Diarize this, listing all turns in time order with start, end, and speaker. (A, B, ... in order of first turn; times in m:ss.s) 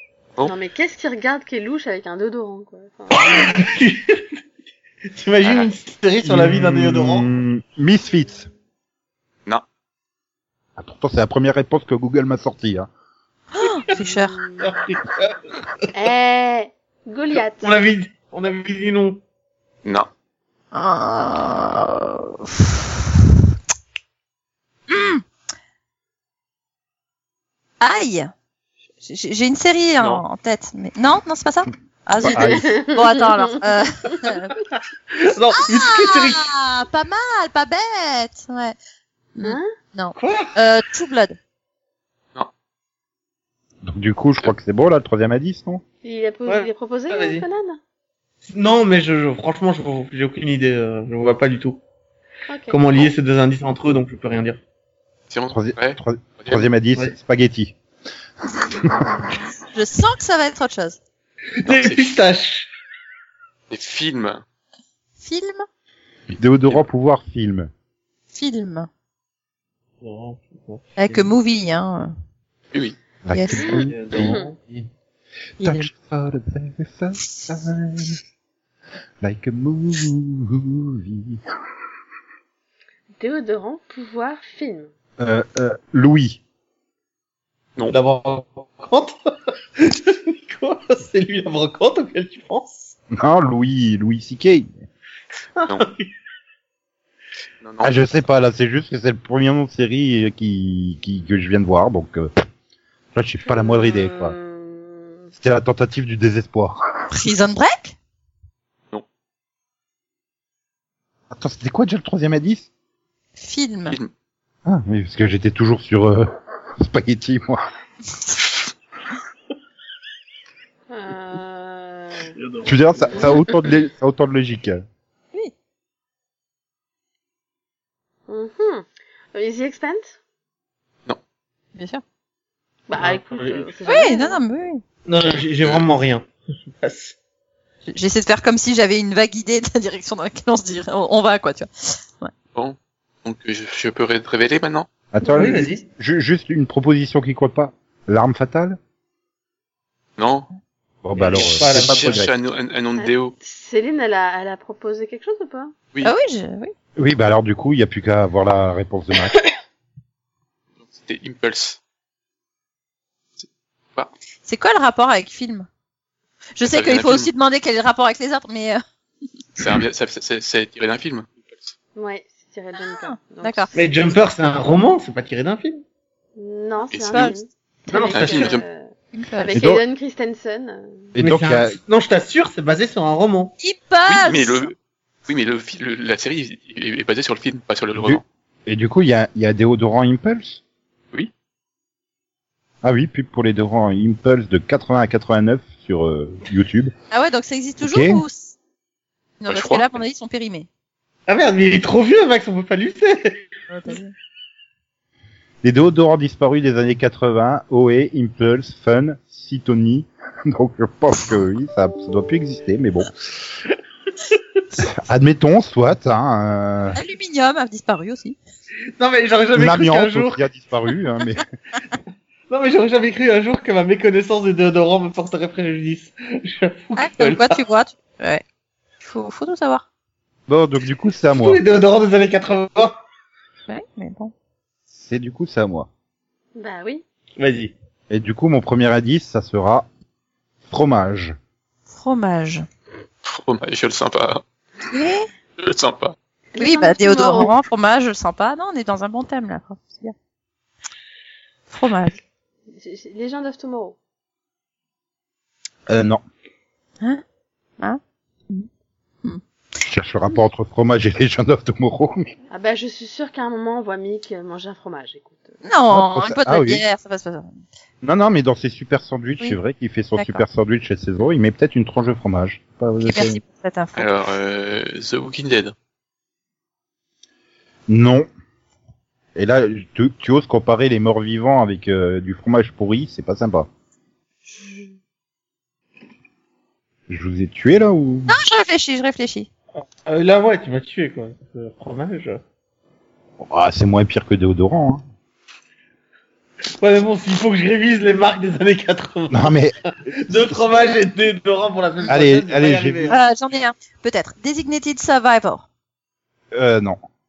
0:00.4-0:03.6 A
0:03.2-0:04.2 B
0:05.1-0:07.3 B
0:05.4-0:05.7 C
0:06.2-0:08.5 D
0:10.8-0:12.9 D
0:13.5-0:14.4 E
0:13.9-0:15.6 B
0:15.9-0:17.8 A
0:17.6-0:19.2 B
0:20.7-0:23.0 E
0:24.9-0:25.2 E
0:27.8-0:28.3 E
0:29.0-0:34.5 E
0:30.0-0:30.2 C
0:32.2-0:32.7 D
0:32.4-0:33.6 A
0:35.1-0:36.5 B
0:35.6-0:38.8 E
0:39.4-0:41.4 E
0:39.4-0:39.7 A
0:40.2-0:40.5 B
0:43.8-0:45.8 D
0:46.0-0:47.8 A
0:46.5-0:47.5 B
0:48.4-0:51.8 B
0:52.5-0:52.8 A
0:52.7-0:54.6 B
0:55.3-0:56.7 C
0:55.5-0:57.8 D
0:58.7-0:59.1 D
0:59.7-1:01.0 E
1:01.6-1:02.7 B
1:01.6-1:02.2 C
1:03.7-1:04.4 C
1:05.2-1:05.6 E
1:06.3-1:07.7 D
1:08.3-1:08.9 E
1:10.0-1:11.3 B
1:11.0-1:12.1 E
1:12.7-1:13.0 C
1:13.2-1:14.4 D
1:13.3-1:13.7 E
1:13.6-1:14.5 A
1:13.7-1:14.9 B
1:15.6-1:18.2 D
1:15.6-1:15.9 E
1:19.2-1:21.4 D
1:23.2-1:24.9 A
1:25.2-1:26.4 D
1:27.9-1:29.2 B
1:29.8-1:33.0 B
1:33.1-1:34.8 D
1:35.6-1:36.1 B
1:37.6-1:38.0 C
1:37.8-1:42.3 D
1:43.2-1:44.4 D
1:43.4-1:45.3 A
1:45.4-1:47.1 D
1:47.1-1:48.0 E
1:51.3-1:52.7 D
1:53.4-1:54.0 E
1:54.7-1:57.6 D
2:00.9-2:02.4 A
2:02.4-2:03.4 B
2:02.6-2:04.8 D
2:08.3-2:10.2 A
2:11.8-2:12.0 E
2:12.9-2:14.4 A
2:13.0-2:13.7 B
2:13.9-2:14.8 E
2:15.0-2:16.3 B
2:16.8-2:17.2 B
2:17.9-2:22.3 E
2:22.5-2:24.9 C
2:25.1-2:28.8 D
2:25.4-2:25.8 B
2:30.2-2:30.5 C
2:31.0-2:32.3 D
2:31.2-2:32.2 B
2:31.3-2:33.4 C
2:33.0-2:35.7 A
2:36.0-2:36.7 E
2:37.0-2:39.4 D
2:40.8-2:41.8 C
2:43.4-2:44.1 C
2:44.4-2:45.7 E
2:46.6-2:48.8 E
2:46.6-2:47.3 C
2:49.6-2:51.7 C
2:52.0-2:54.1 A
2:52.9-2:53.7 E
2:53.7-2:55.8 B
2:56.4-3:01.1 A
2:56.9-2:57.4 C
2:57.1-2:57.4 E
2:57.9-2:58.6 B
2:58.1-2:58.6 C
2:59.1-2:59.6 E
2:59.5-2:59.8 D
3:01.1-3:01.8 D
3:01.2-3:03.5 B
3:03.6-3:04.7 E
3:04.1-3:04.7 C
3:05.3-3:08.2 C
3:08.0-3:10.6 D
3:12.8-3:16.9 D
3:17.1-3:18.6 E
3:17.8-3:18.2 D
3:19.4-3:20.7 E
3:19.5-3:19.8 C
3:21.3-3:23.5 B
3:23.7-3:24.1 E
3:25.6-3:33.1 D
3:34.8-3:37.0 D
3:36.9-3:38.4 E
3:39.0-3:40.4 B
3:39.6-3:41.4 D
3:42.5-3:47.6 B
3:47.0-3:48.4 E
3:49.0-3:49.8 E
3:50.5-3:51.6 D
3:51.4-3:53.0 B
3:53.7-3:54.3 E
3:54.9-3:55.9 D
3:56.6-3:57.0 A
3:57.4-3:57.7 B
3:58.1-3:59.9 D
4:00.7-4:01.4 D
4:01.9-4:02.7 E
4:03.2-4:04.4 C
4:04.9-4:05.3 E
4:05.6-4:06.2 C
4:06.6-4:07.5 A
4:06.6-4:10.2 E
4:11.7-4:12.2 E
4:12.7-4:14.0 A
4:15.9-4:16.2 D
4:17.8-4:18.7 E
4:19.9-4:22.3 D
4:22.5-4:25.6 A
4:25.6-4:27.6 E
4:25.9-4:26.8 D
4:28.0-4:33.4 D
4:30.2-4:30.4 E
4:33.0-4:34.1 E
4:34.0-4:35.8 C
4:37.9-4:38.3 D
4:39.4-4:43.7 D
4:47.1-4:48.3 D
4:48.3-4:49.5 E
4:49.8-4:52.4 B
4:53.4-4:55.0 D
4:56.8-4:59.5 B
4:59.3-4:59.8 D
5:00.3-5:03.2 B
5:00.3-5:00.6 D
5:02.1-5:03.2 D
5:03.1-5:05.6 E
5:06.5-5:07.0 D